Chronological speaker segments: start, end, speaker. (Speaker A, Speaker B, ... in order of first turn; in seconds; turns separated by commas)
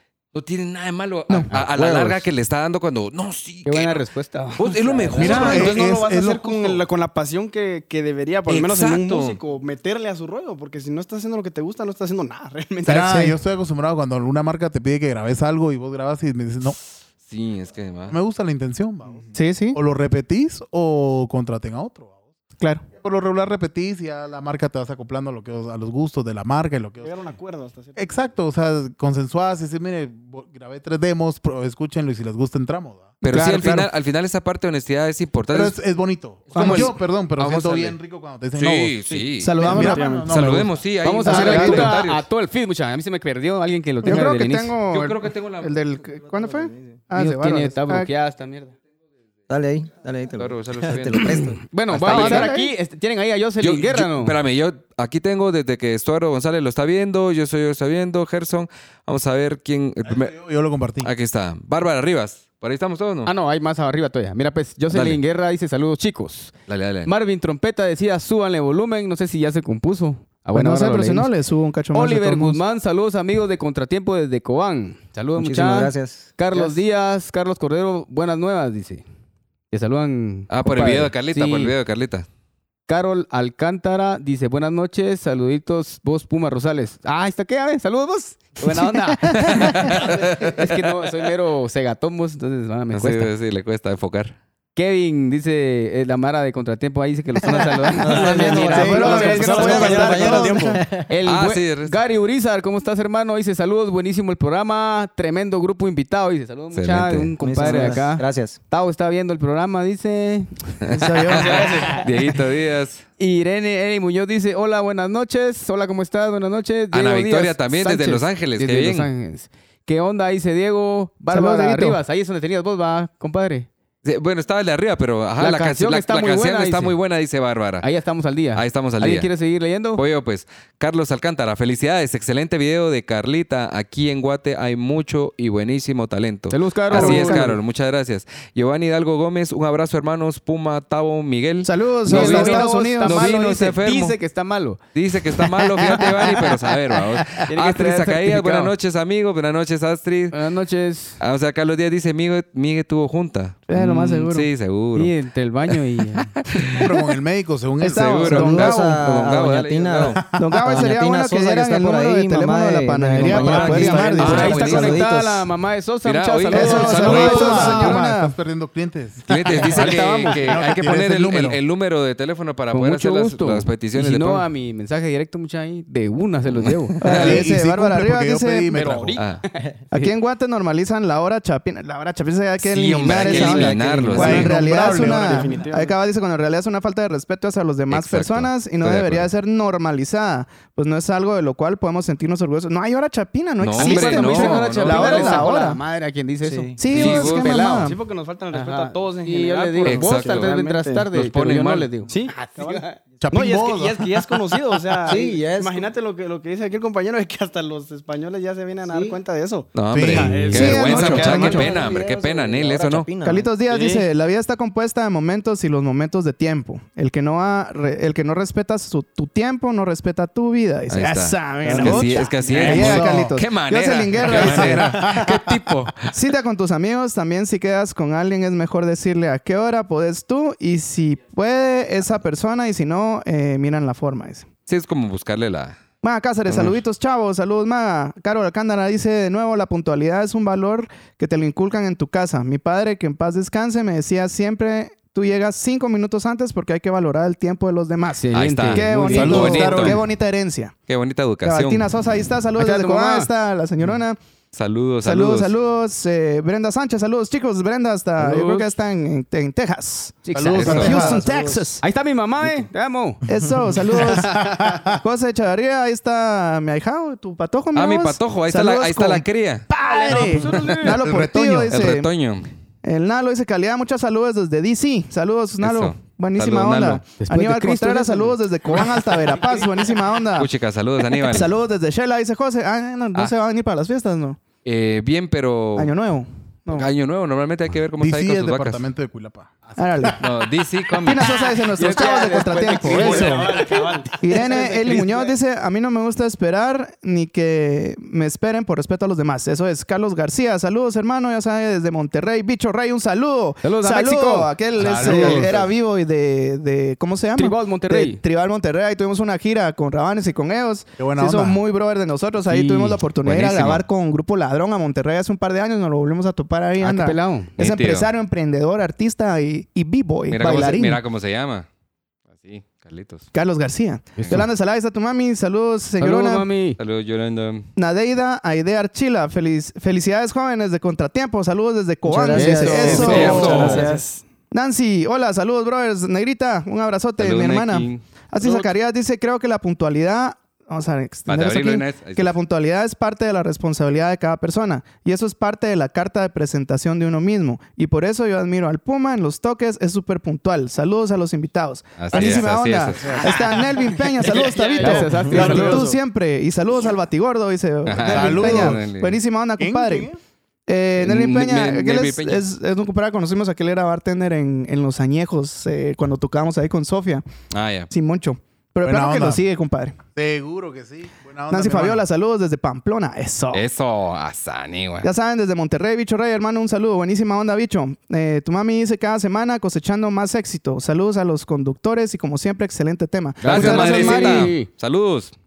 Speaker A: 0.3-5.8, Speaker B: 1.5-2.1, Speaker B: 3.6-5.5, Speaker C: 5.1-13.2, Speaker D: 5.2-6.8, Speaker A: 8.5-9.4, Speaker D: 12.8-16.8, Speaker E: 13.0-13.3, Speaker A: 17.3-18.1, Speaker D: 18.1-22.2, Speaker E: 19.3-19.8, Speaker E: 22.6-22.9, Speaker D: 22.9-27.1, Speaker C: 27.0-28.3, Speaker D: 28.0-33.2, Speaker E: 33.2-33.9, Speaker A: 33.2-35.8, Speaker D: 35.5-39.0, Speaker A: 36.5-38.0, Speaker E: 36.5-36.9, Speaker A: 38.5-39.6, Speaker E: 39.4-40.3, Speaker C: 39.6-40.4, Speaker D: 39.6-40.7, Speaker A: 40.3-42.2, Speaker B: 41.0-44.8, Speaker E: 41.2-41.9, Speaker D: 41.3-42.0, Speaker E: 44.0-48.1, Speaker A: 44.9-45.8, Speaker F: 46.4-47.0, Speaker B: 47.1-48.8, Speaker F: 49.5-51.6, Speaker A: 50.4-52.5, Speaker B: 51.5-54.4, Speaker E: 52.0-52.7, Speaker A: 53.6-60.4, Speaker D: 60.0-61.1, Speaker A: 61.0-63.3, Speaker B: 63.2-66.5, Speaker A: 64.9-65.2, Speaker A: 66.7-67.1, Speaker B: 67.1-71.3, Speaker E: 70.5-72.6, Speaker B: 71.9-79.0, Speaker F: 75.3-76.6, Speaker B: 79.7-81.7, Speaker A: 80.5-82.3, Speaker B: 82.9-93.3, Speaker E: 88.9-89.7, Speaker A: 89.5-91.2, Speaker A: 92.9-94.4, Speaker B: 94.8-100.1, Speaker F: 97.5-101.1, Speaker E: 98.1-100.8, Speaker C: 98.2-100.8, Speaker B: 101.1-111.0, Speaker A: 101.2-102.0, Speaker A: 106.7-107.3, Speaker F: 107.4-108.6, Speaker A: 110.8-113.0, Speaker E: 110.9-112.0, Speaker B: 113.2-123.7, Speaker A: 116.9-119.1, Speaker E: 121.3-122.0, Speaker A: 124.0-127.9, Speaker B: 125.4-127.0, Speaker B: 127.8-130.0, Speaker A: 128.5-129.3, Speaker A: 129.9-144.2, Speaker B: 136.5-137.6, Speaker E: 136.9-137.5, Speaker E: 141.6-143.3, Speaker B: 142.1-144.8, Speaker A: 144.9-150.4, Speaker B: 145.8-146.3, Speaker B: 147.4-148.7, Speaker B: 150.3-151.2, Speaker A: 151.2-155.1, Speaker E: 153.7-154.5, Speaker B: 154.9-156.3, Speaker D: 156.8-158.3, Speaker E: 157.8-159.0, Speaker A: 157.8-160.2, Speaker F: 158.2-165.5, Speaker E: 160.4-164.7, Speaker D: 163.2-164.0, Speaker A: 163.4-165.0, Speaker B: 163.6-167.9, Speaker A: 166.0-168.0, Speaker E: 166.5-168.3, Speaker D: 166.7-171.6, Speaker A: 169.3-174.5, Speaker B: 169.8-170.3, Speaker B: 172.7-177.3, Speaker A: 176.5-177.5, Speaker E: 177.0-178.7, Speaker D: 177.1-179.2, Speaker B: 178.7-180.1, Speaker A: 179.2-179.4, Speaker E: 179.9-195.8, Speaker A: 182.6-184.6, Speaker F: 183.1-184.5, Speaker B: 183.2-184.5, Speaker D: 184.1-185.6, Speaker C: 184.8-186.0, Speaker A: 187.9-189.3, Speaker A: 193.6-195.4, Speaker B: 193.8-197.8, Speaker F: 196.4-196.8, Speaker E: 196.8-198.0, Speaker A: 196.9-197.8, Speaker C: 197.7-201.1, Speaker B: 198.5-203.0, Speaker A: 199.8-200.6, Speaker A: 201.1-201.9, Speaker C: 202.1-211.9, Speaker D: 203.2-204.5, Speaker F: 205.1-205.9, Speaker F: 208.9-209.2, Speaker A: 209.8-213.1, Speaker D: 209.9-211.0, Speaker E: 210.5-211.7, Speaker F: 211.0-213.5, Speaker E: 213.2-225.2, Speaker C: 213.7-214.1, Speaker A: 220.9-226.1, Speaker D: 222.5-223.4, Speaker D: 224.2-225.3, Speaker E: 226.1-234.5, Speaker A: 234.7-235.8, Speaker E: 236.0-250.8, Speaker A: 236.5-236.8, Speaker B: 248.2-249.8, Speaker A: 248.3-250.0, Speaker D: 249.1-250.0, Speaker A: 250.9-251.9, Speaker E: 251.4-254.2, Speaker B: 252.6-253.3, Speaker A: 254.5-255.5, Speaker E: 255.0-261.8, Speaker B: 258.2-258.7, Speaker B: 260.3-261.2, Speaker D: 260.3-261.2, Speaker A: 260.6-260.9, Speaker F: 260.7-261.7, Speaker B: 261.8-263.2, Speaker E: 263.3-272.1, Speaker D: 263.9-265.0, Speaker A: 267.8-269.7, Speaker B: 269.8-271.0, Speaker A: 270.4-272.5, Speaker D: 271.1-271.6, Speaker E: 272.8-280.5, Speaker A: 275.6-277.1, Speaker B: 277.2-278.9, Speaker A: 280.4-281.5, Speaker E: 281.2-284.4, Speaker A: 284.6-285.9, Speaker E: 285.8-286.9, Speaker A: 286.7-288.9, Speaker D: 288.0-290.2, Speaker E: 289.8-290.2, Speaker A: 290.2-291.3, Speaker E: 291.0-321.0, Speaker B: 291.6-295.2, Speaker C: 291.8-295.3, Speaker B: 303.6-305.6, Speaker D: 304.8-305.7, Speaker B: 307.4-308.2, Speaker D: 311.0-311.6, Speaker B: 312.5-313.0, Speaker A: 313.2-313.8, Speaker B: 316.8-317.5, Speaker A: 317.6-318.1, Speaker A: 320.3-321.7, Speaker A: 322.3-323.3, Speaker E: 323.3-326.5, Speaker B: 326.0-326.8, Speaker A: 326.8-327.7, Speaker E: 327.8-333.8, Speaker F: 332.1-333.9, Speaker B: 332.3-333.9, Speaker D: 332.8-333.5, Speaker A: 332.9-333.9, Speaker C: 333.2-334.2, Speaker E: 334.5-360.1, Speaker A: 337.2-338.0, Speaker C: 338.4-338.7, Speaker A: 341.3-342.3, Speaker A: 352.0-353.2, Speaker D: 353.0-353.3, Speaker B: 354.2-356.0, Speaker C: 354.7-355.4, Speaker D: 355.2-355.7, Speaker A: 357.9-359.2, Speaker D: 358.0-358.8, Speaker D: 359.6-360.2, Speaker E: 360.7-367.2, Speaker A: 361.0-362.4, Speaker A: 367.5-367.9, Speaker E: 367.9-370.0, Speaker D: 368.9-369.4, Speaker D: 370.1-372.0, Speaker E: 371.5-373.6, Speaker A: 373.5-375.1, Speaker E: 375.0-384.5, Speaker B: 383.4-384.7, Speaker A: 383.4-385.3